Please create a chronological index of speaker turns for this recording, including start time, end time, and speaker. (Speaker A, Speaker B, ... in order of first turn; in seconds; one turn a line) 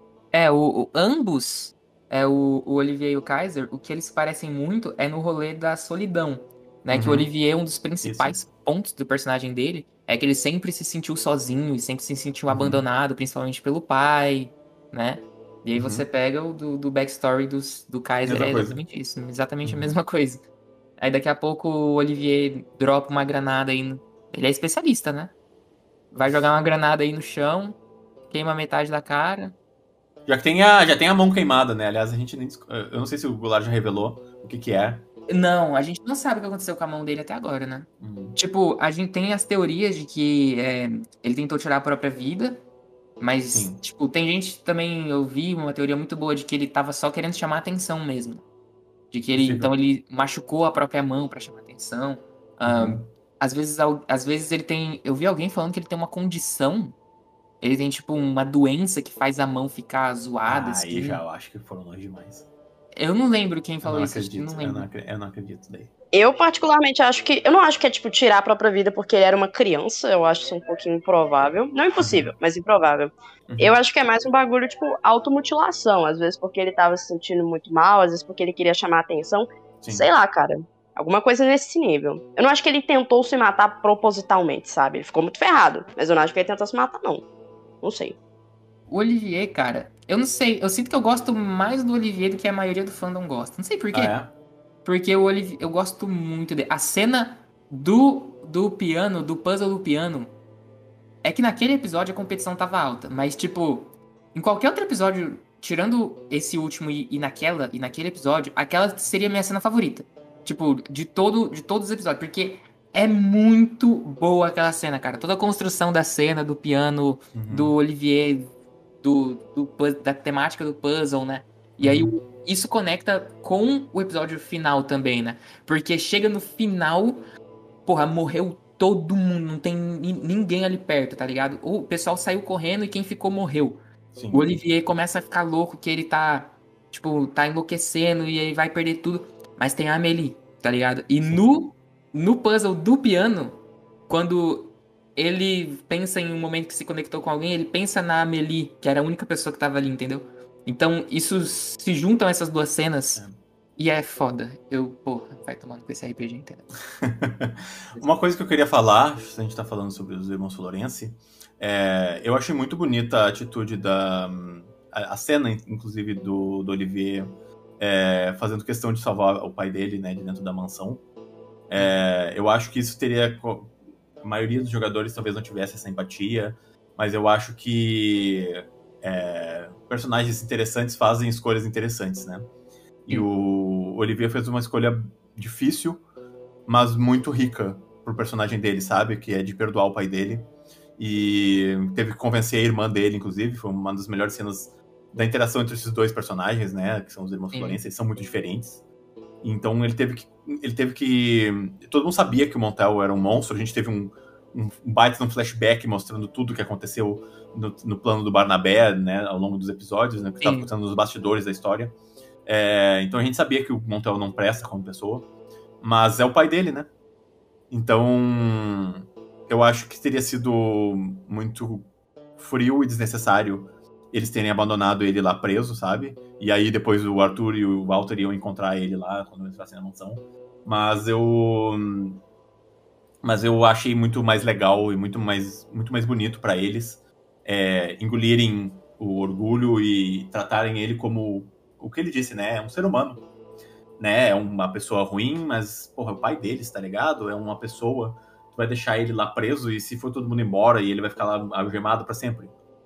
Speaker A: 0.3-20.4
Speaker B: 6.9-7.3
Speaker B: 8.0-8.4
Speaker B: 12.5-12.8
Speaker B: 15.7-16.0
Speaker B: 18.2-18.8
Speaker B: 19.6-19.9
Speaker A: 21.0-25.3
Speaker A: 26.1-27.8
Speaker A: 28.3-29.5
Speaker B: 30.3-35.0
Speaker A: 35.3-42.6
Speaker B: 38.0-38.4
Speaker A: 43.2-48.4
Speaker B: 43.5-43.8
Speaker A: 49.1-56.9
Speaker B: 49.4-49.7
Speaker B: 52.6-53.1
Speaker A: 57.6-61.2
Speaker B: 60.5-62.5
Speaker A: 62.9-64.9
Speaker B: 63.8-65.9
Speaker C: 66.1-87.2
Speaker B: 72.0-72.3
Speaker B: 73.5-73.7
Speaker B: 79.8-80.1
Speaker C: 87.8-88.2
Speaker A: 88.9-94.2
Speaker B: 93.9-94.3
Speaker A: 94.8-100.3
Speaker A: 101.2-127.2
Speaker B: 117.3-117.7
Speaker B: 121.8-122.1
Speaker A: 127.8-133.8
Speaker B: 134.1-134.6
Speaker A: 134.3-153.2
Speaker B: 141.2-141.5
Speaker A: 153.8-156.6
Speaker B: 157.0-171.0
Speaker B: 171.7-182.5
Speaker B: 183.1-186.0
Speaker B: 186.7-198.8
Speaker A: 197.5-197.8
Speaker B: 199.4-211.9
Speaker A: 210.4-210.7
Speaker B: 212.4-215.3
Speaker B: 215.8-216.9
Speaker B: 217.7-232.2
Speaker B: 233.2-243.2
Speaker B: 244.0-252.5